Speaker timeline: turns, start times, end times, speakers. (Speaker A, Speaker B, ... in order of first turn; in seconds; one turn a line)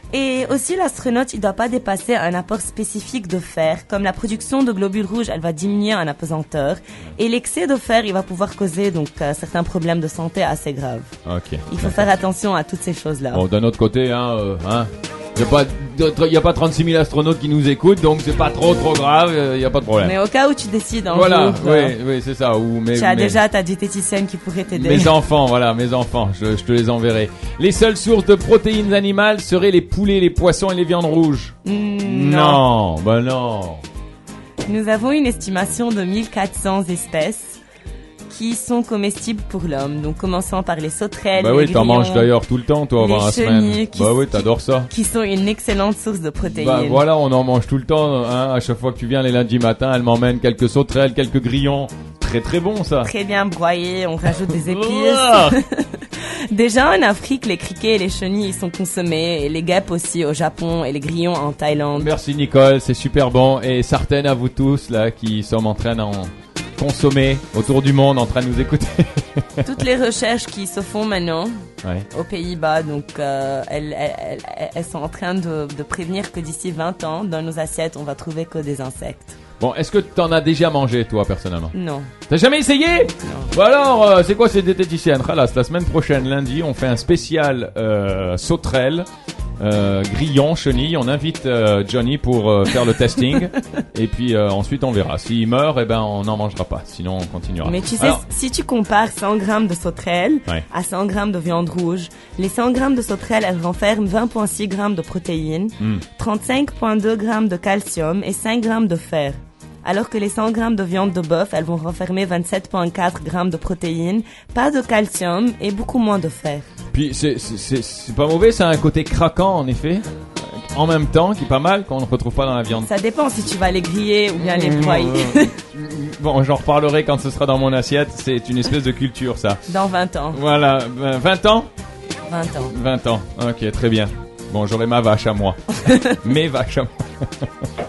Speaker A: 0.1-11.1
Speaker B: 11.2-12.1
Speaker A: 11.7-13.4
Speaker B: 13.3-20.1
Speaker A: 20.0-21.9
Speaker B: 21.1-23.4
Speaker A: 22.9-25.1
Speaker B: 24.7-33.8
Speaker A: 31.6-32.6
Speaker A: 34.6-37.6
Speaker A: 38.3-42.3
Speaker B: 41.4-44.9
Speaker A: 43.0-47.0
Speaker B: 46.5-53.1
Speaker A: 53.0-62.1
Speaker B: 54.5-55.6
Speaker B: 61.9-69.7
Speaker A: 69.6-71.5
Speaker A: 72.1-79.3
Speaker B: 79.6-81.7
Speaker A: 81.7-82.1
Speaker B: 82.3-89.1
Speaker A: 83.2-83.5
Speaker B: 89.6-98.2
Speaker A: 97.6-116.7
Speaker B: 105.8-106.0
Speaker B: 116.9-122.9
Speaker A: 122.8-125.5
Speaker B: 124.4-129.6
Speaker A: 129.7-130.4
Speaker B: 130.3-131.7
Speaker A: 132.3-132.7
Speaker B: 132.7-137.7